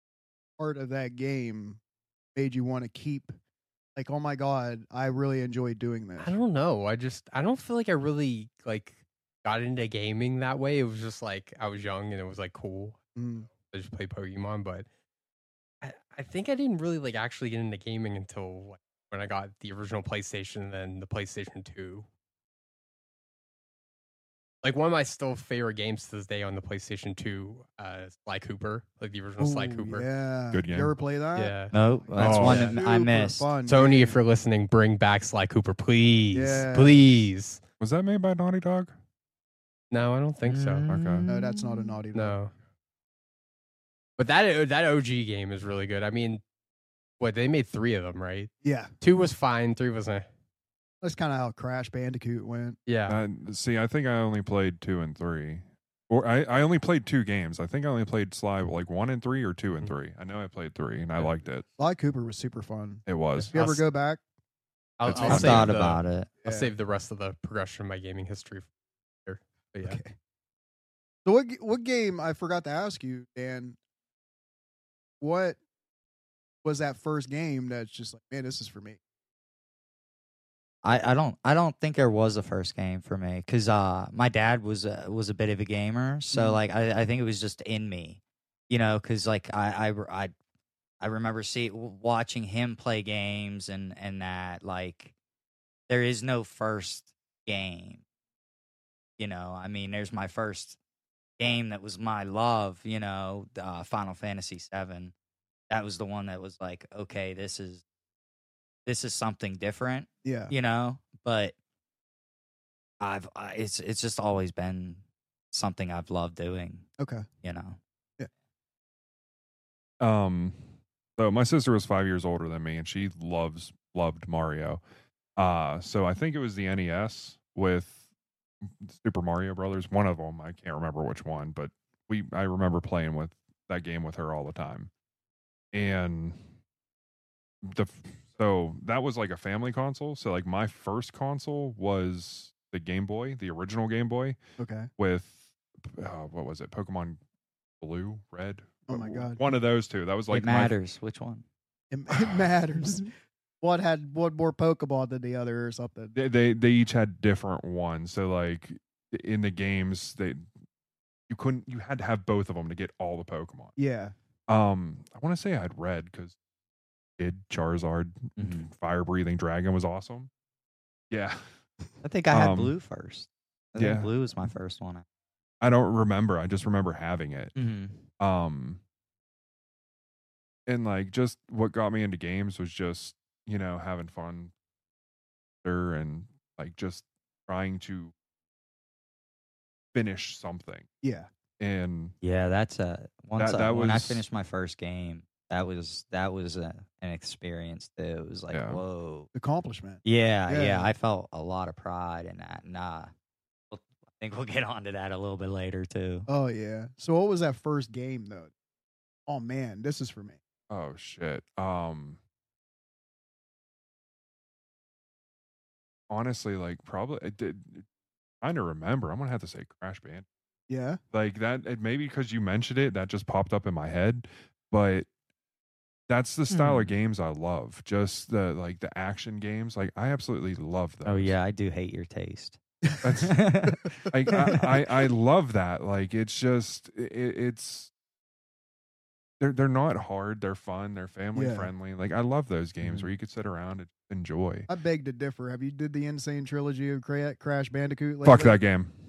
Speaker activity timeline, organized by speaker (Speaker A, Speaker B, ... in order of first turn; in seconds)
Speaker A: 0.6-1.8, 2.3-3.3, 4.0-6.3, 13.2-13.5, 29.4-31.5, 32.2-34.2, 36.3-37.3, 41.2-42.4, 48.6-48.9, 51.0-52.8, 61.8-64.2, 66.4-66.7, 69.8-70.1, 71.2-73.8, 75.2-75.6, 76.6-79.0, 86.3-86.6, 110.2-110.5, 117.0-117.2, 144.6-144.9, 148.9-149.4, 151.9-156.1, 163.8-164.1, 191.0-191.3, 199.3-200.9, 206.3-208.5, 209.3-210.4, 220.7-221.0, 241.3-241.7, 244.7-248.6
Speaker B: 6.2-13.0, 13.6-14.8, 15.8-22.1, 24.6-30.1, 31.4-32.8, 33.6-37.6, 39.9-40.9, 42.1-42.5, 44.2-46.4, 47.2-50.3, 52.9-53.2, 63.4-63.8, 65.0-68.7, 69.2-70.0
Speaker C: 30.5-30.9, 32.2-32.6, 37.8-38.9, 40.9-41.2, 53.1-61.6, 63.0-63.5, 65.0-65.8, 120.0-120.6, 121.2-124.8, 125.4-128.0, 128.8-134.9, 135.7-136.4, 137.6-144.4, 145.0-147.2, 147.8-150.7, 156.1-160.5, 161.3-163.7, 164.5-166.3, 167.2-170.3, 171.1-171.4, 172.3-172.7, 173.8-174.1, 175.6-177.5, 178.2-178.8, 180.7-184.5, 185.6-188.1, 189.9-190.9, 191.6-192.1, 193.4-194.2, 198.5-198.8, 210.7-212.2, 216.1-217.8, 218.4-220.2, 221.1-225.1, 226.1-231.3, 233.0-233.4, 234.1-237.9, 239.4-244.7, 248.2-248.9
Speaker D: 31.7-33.5, 40.5-42.0, 65.2-66.3, 80.8-90.3, 91.0-95.1, 95.9-98.0, 99.2-100.8, 101.4-105.1, 105.7-107.8, 108.8-111.5, 113.0-115.0, 115.5-116.9, 117.4-117.8, 150.3-151.4, 168.4-168.7, 172.0-175.0, 177.6-178.0, 192.2-199.3, 200.0-203.1, 203.7-206.3, 226.5-226.9, 231.0-232.6, 233.2-234.6, 242.8-243.1